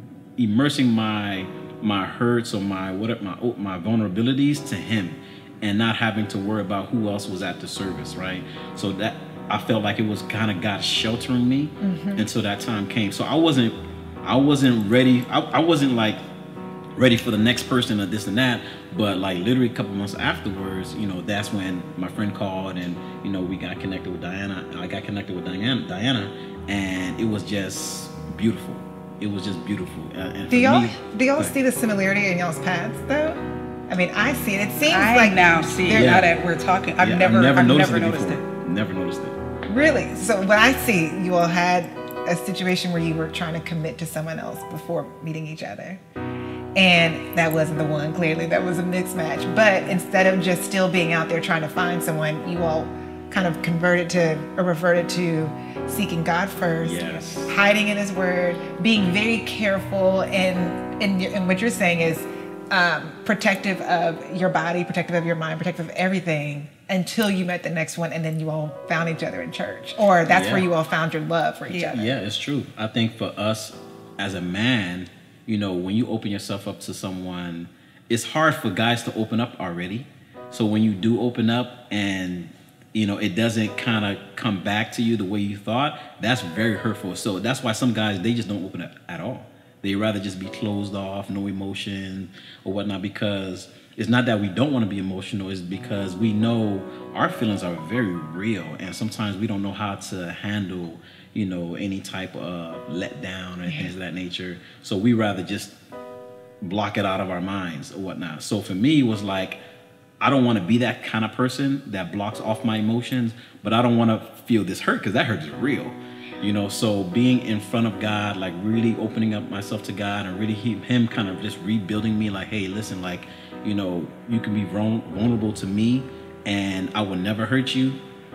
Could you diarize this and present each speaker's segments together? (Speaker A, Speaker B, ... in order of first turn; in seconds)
Speaker A: 0.4-16.2, 16.9-31.6, 36.0-36.2, 37.0-39.4, 56.8-57.6, 70.2-70.7, 71.7-105.7, 106.6-109.6, 110.2-128.0
Speaker B: 11.8-12.2, 30.5-36.2, 39.7-46.0, 46.8-71.9
Speaker C: 34.9-38.5